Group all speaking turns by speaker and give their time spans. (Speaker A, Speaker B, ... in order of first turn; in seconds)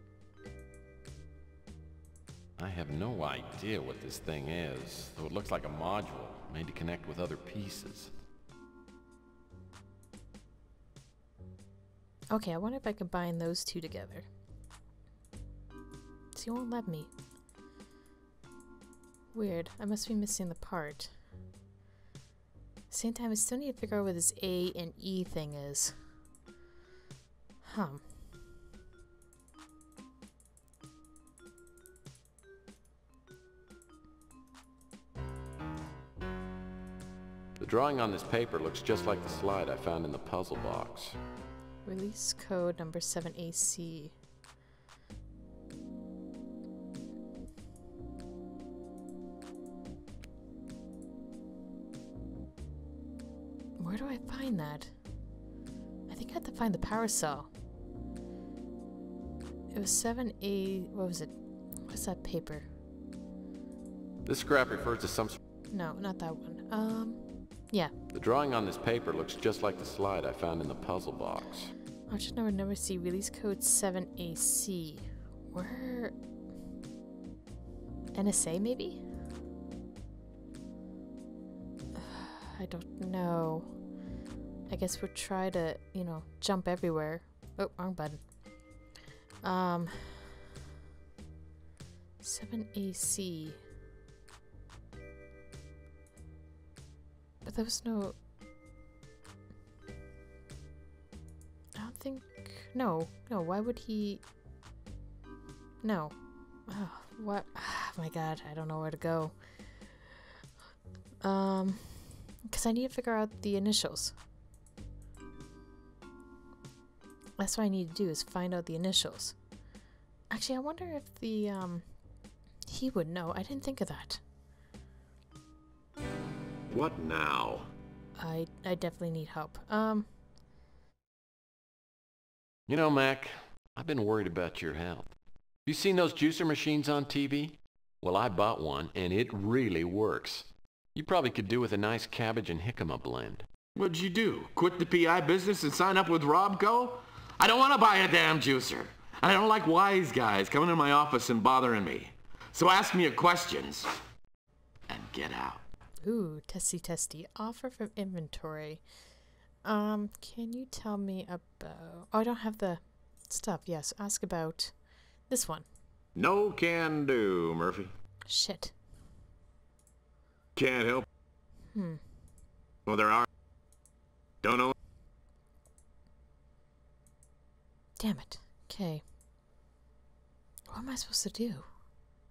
Speaker A: 2.6-8.1, 37.6-41.2, 64.2-65.4, 68.1-71.7, 132.7-143.4
Speaker B: 12.3-14.3, 16.3-17.1, 19.3-21.1, 22.9-25.9, 27.6-28.0, 41.8-44.1, 53.8-54.9, 56.1-57.5, 59.7-61.3, 61.9-62.7, 65.7-67.9, 72.1-76.1, 78.1-79.0, 82.0-83.7, 84.7-88.2, 89.4-90.4, 92.2-93.6, 97.4-98.1, 101.8-104.2, 105.8-106.1, 106.7-109.3, 111.2-114.1, 117.4-119.3, 120.3-121.8, 122.7-124.2, 128.2-130.1, 156.0-158.8, 159.6-164.7, 165.3-165.7, 168.2-168.7, 171.7-172.0, 178.0-179.0, 180.7-181.7
Speaker C: 126.7-127.7, 143.7-153.9, 154.9-155.6, 166.2-167.9, 170.6-171.1, 172.9-173.2, 174.4-174.7